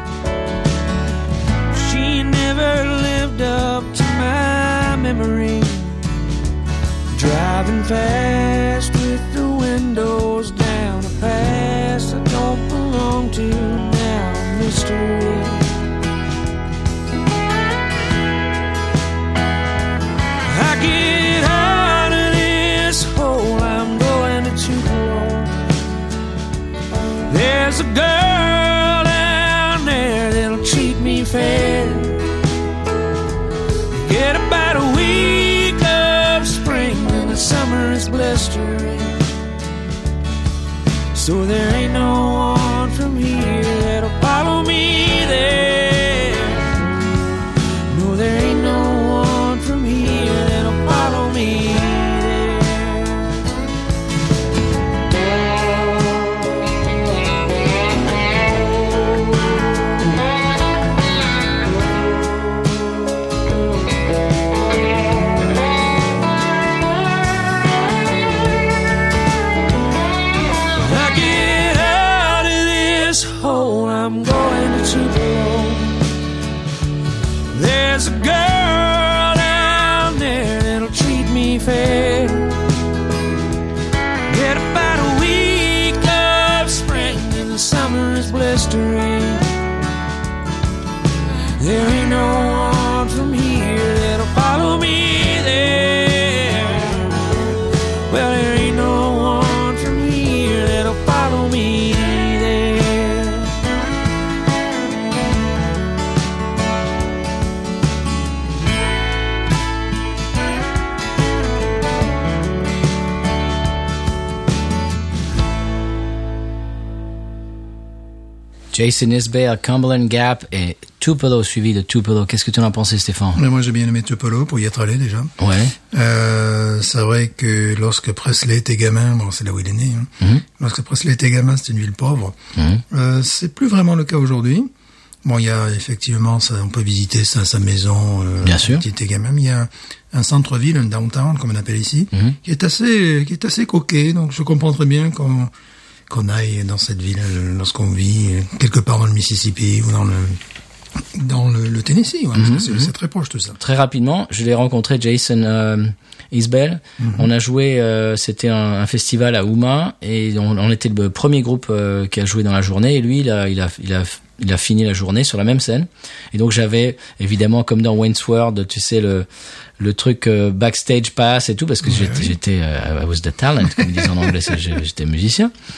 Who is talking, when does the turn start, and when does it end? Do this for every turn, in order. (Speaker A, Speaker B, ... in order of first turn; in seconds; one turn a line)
Speaker A: 1.7-6.0
Speaker A: 7.1-15.8
Speaker A: 20.5-25.6
Speaker A: 27.3-32.2
Speaker A: 33.9-39.2
Speaker A: 41.1-46.8
Speaker A: 47.9-53.2
Speaker A: 70.8-76.0
Speaker A: 77.5-82.7
Speaker A: 84.3-89.5
Speaker A: 91.6-97.1
Speaker A: 98.1-103.5
Speaker B: 118.7-123.4
Speaker C: 123.3-125.3
Speaker B: 125.4-125.7
Speaker C: 125.9-132.4
Speaker B: 132.6-132.8
Speaker C: 132.9-134.7
Speaker C: 135.2-145.5
Speaker B: 138.4-138.8
Speaker C: 146.1-150.4
Speaker C: 151.1-153.6
Speaker B: 152.3-152.9
Speaker B: 153.6-169.3
Speaker C: 157.0-157.3
Speaker B: 169.8-175.5
Speaker C: 171.8-172.3
Speaker C: 173.8-174.1